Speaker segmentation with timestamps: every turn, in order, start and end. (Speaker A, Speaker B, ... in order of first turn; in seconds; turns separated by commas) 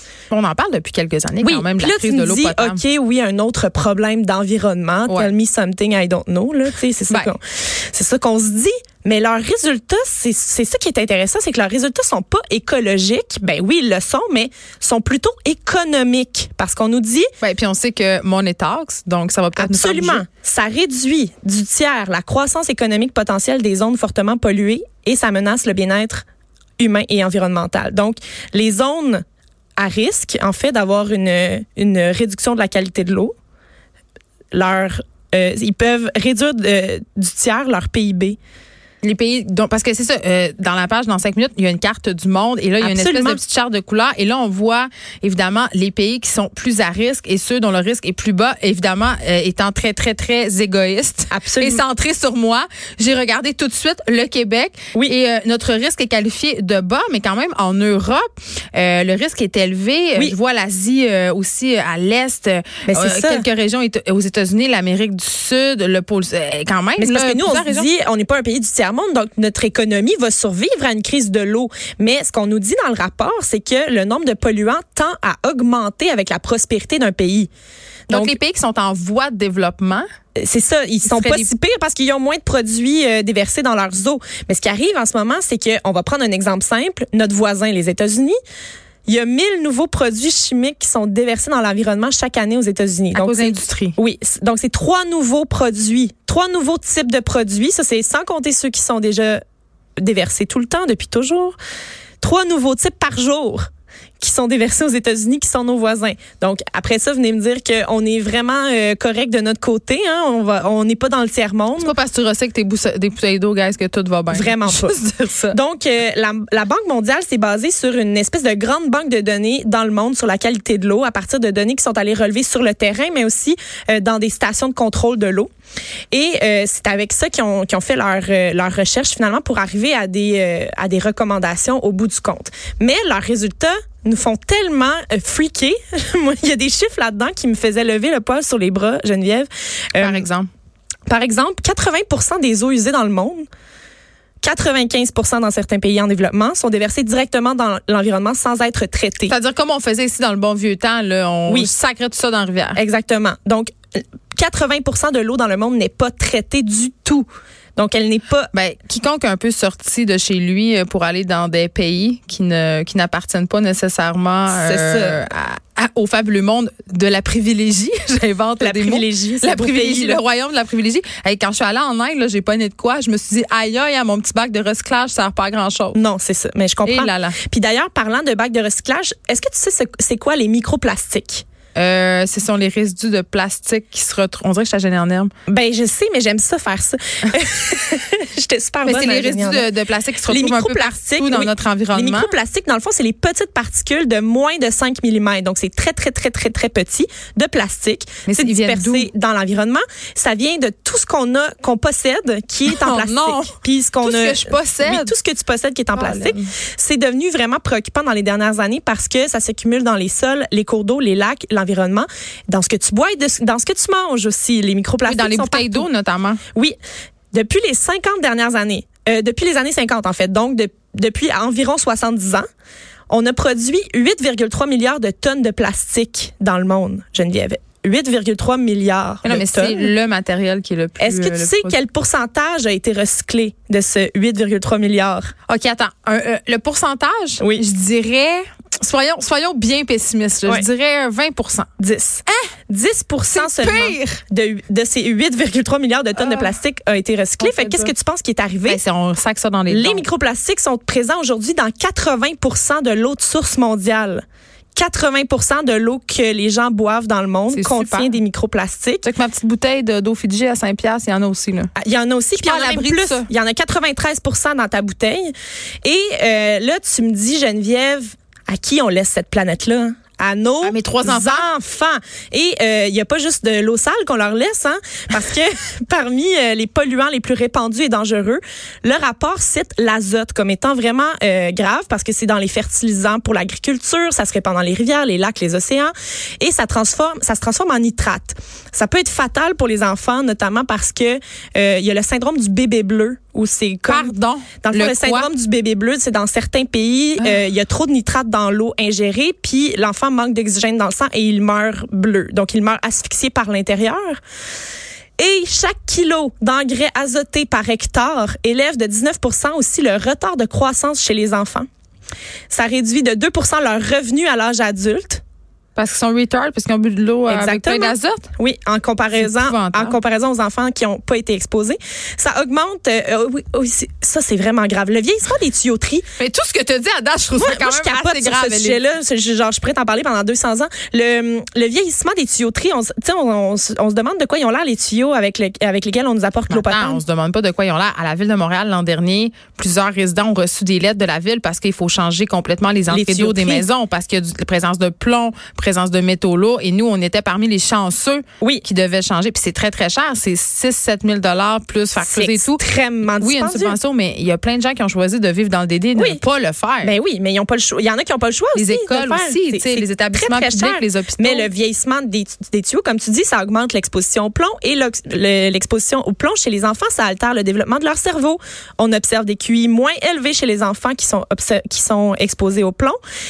Speaker A: 0.3-2.8, Speaker B: 1.4-17.3, Speaker A: 5.1-5.3, Speaker A: 7.1-7.3, Speaker A: 17.4-20.2, Speaker B: 19.6-26.2, Speaker B: 26.8-29.2, Speaker B: 29.8-33.3, Speaker B: 34.5-38.4, Speaker A: 39.0-67.9, Speaker B: 42.8-43.4, Speaker B: 51.3-51.8, Speaker B: 62.9-63.5, Speaker B: 67.0-77.5, Speaker B: 78.1-78.4, Speaker A: 78.1-80.0, Speaker B: 80.4-88.3, Speaker A: 81.0-81.5, Speaker B: 89.0-99.4, Speaker A: 93.1-94.0, Speaker B: 100.0-101.5, Speaker B: 102.2-103.6, Speaker B: 104.2-112.0, Speaker A: 111.8-115.6, Speaker B: 114.3-115.0, Speaker B: 115.5-125.5, Speaker B: 126.1-140.3, Speaker A: 140.0-140.5, Speaker B: 141.1-143.4, Speaker B: 144.4-149.3, Speaker A: 149.3-152.8, Speaker B: 151.5-151.7, Speaker B: 152.7-153.7, Speaker B: 154.3-158.5, Speaker A: 158.5-176.0, Speaker B: 164.5-165.2, Speaker B: 168.6-170.2, Speaker B: 175.9-181.4, Speaker A: 176.8-177.4, Speaker A: 181.7-185.3, Speaker B: 185.5-189.7, Speaker A: 188.8-192.3, Speaker B: 190.3-215.9, Speaker A: 198.3-199.1, Speaker A: 202.7-205.1, Speaker A: 205.9-206.5, Speaker A: 215.0-216.4, Speaker B: 217.3-222.4, Speaker B: 223.1-229.9, Speaker A: 229.2-231.8, Speaker B: 231.0-235.3, Speaker A: 235.5-241.7, Speaker B: 237.4-237.6, Speaker B: 241.8-248.8, Speaker A: 243.3-244.2, Speaker A: 246.2-246.5, Speaker A: 247.4-247.9, Speaker A: 248.7-250.0, Speaker B: 249.7-254.2, Speaker B: 254.7-259.1, Speaker A: 257.5-258.1, Speaker A: 259.0-261.7, Speaker B: 261.8-265.3, Speaker A: 262.3-263.3, Speaker B: 265.8-304.2, Speaker A: 270.6-271.5, Speaker A: 293.9-295.3, Speaker B: 305.2-311.7, Speaker B: 312.5-315.2, Speaker A: 315.8-318.3, Speaker B: 317.3-326.1, Speaker A: 319.1-320.0, Speaker A: 326.2-328.8, Speaker B: 327.4-337.0, Speaker A: 336.5-352.6, Speaker B: 342.9-343.6, Speaker B: 352.0-353.8, Speaker A: 353.2-356.9, Speaker B: 355.9-356.2, Speaker B: 356.8-373.0, Speaker A: 358.5-361.5